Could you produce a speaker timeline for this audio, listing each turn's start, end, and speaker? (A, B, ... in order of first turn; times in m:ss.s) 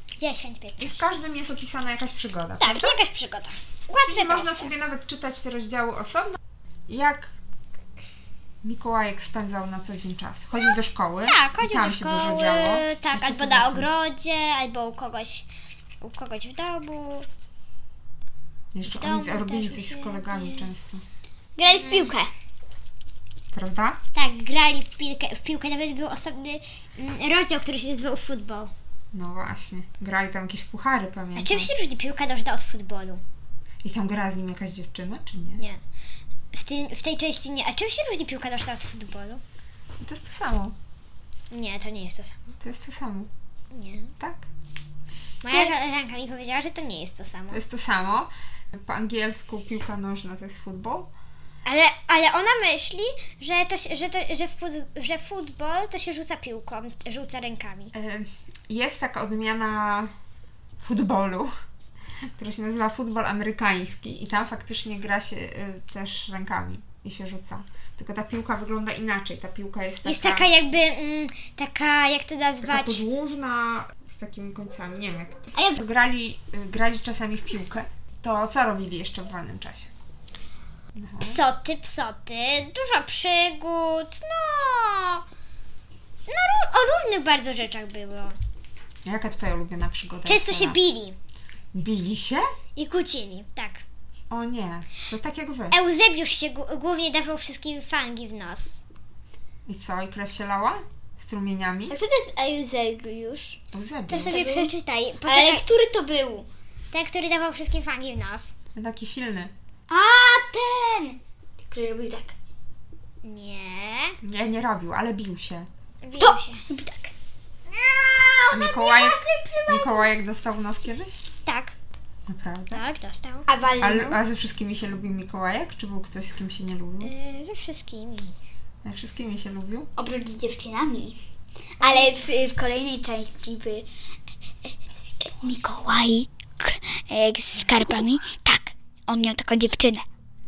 0:00.2-0:01.0 A
0:00.8-0:03.0 B
0:02.6-0:04.7 A
0:04.0-0:07.4 B
0:08.6-0:13.9 B
0:11.2-0:15.5 A
0:16.0-0:17.3 A
0:18.7-0:21.0 B
0:18.8-0:20.7 A
0:21.6-0:22.3 C
0:21.8-0:22.1 A
0:23.5-0:24.0 B
0:24.1-0:28.7 A
0:29.1-0:31.7 B
0:31.4-0:33.2 A
0:33.8-0:35.6 B
0:36.5-0:39.4 A
0:40.0-0:40.8 B
0:41.5-0:42.6 A
0:42.6-0:43.3 B
0:43.7-0:44.1 A
0:44.2-0:44.5 B
0:45.4-0:47.6 A
0:47.5-0:51.1 B
0:51.6-0:57.9 A
0:57.9-1:00.1 B
1:00.8-1:01.5 B
1:02.2-1:10.5 B
1:10.0-1:13.0 A
1:12.6-1:19.9 B
1:21.0-1:21.4 B
1:21.2-1:25.2 A
1:26.3-1:28.4 A
1:29.0-1:30.8 B
1:30.3-1:31.2 A
1:31.7-1:32.5 B
1:32.8-1:33.8 A
1:34.3-1:35.8 B
1:35.7-1:38.8 A
1:39.7-1:42.0 B
1:41.9-1:43.6 C
1:43.7-1:44.5 B
1:44.1-1:45.7 A
1:44.2-1:44.7 C
1:45.3-1:46.5 C
1:46.9-1:48.5 A
1:48.8-1:49.5 B
1:49.9-1:52.4 C
1:53.2-1:54.2 A
1:54.2-1:55.7 B
1:56.0-1:56.6 A
1:56.2-1:57.1 C
1:57.7-2:00.2 C
1:58.5-2:01.2 B
2:01.4-2:01.8 A
2:02.3-2:02.8 B
2:02.7-2:03.5 A
2:03.5-2:04.2 C
2:03.8-2:07.1 B
2:07.0-2:08.4 A
2:08.8-2:09.9 B
2:10.0-2:11.2 C
2:11.8-2:12.2 A
2:11.8-2:13.9 C
2:14.6-2:20.0 C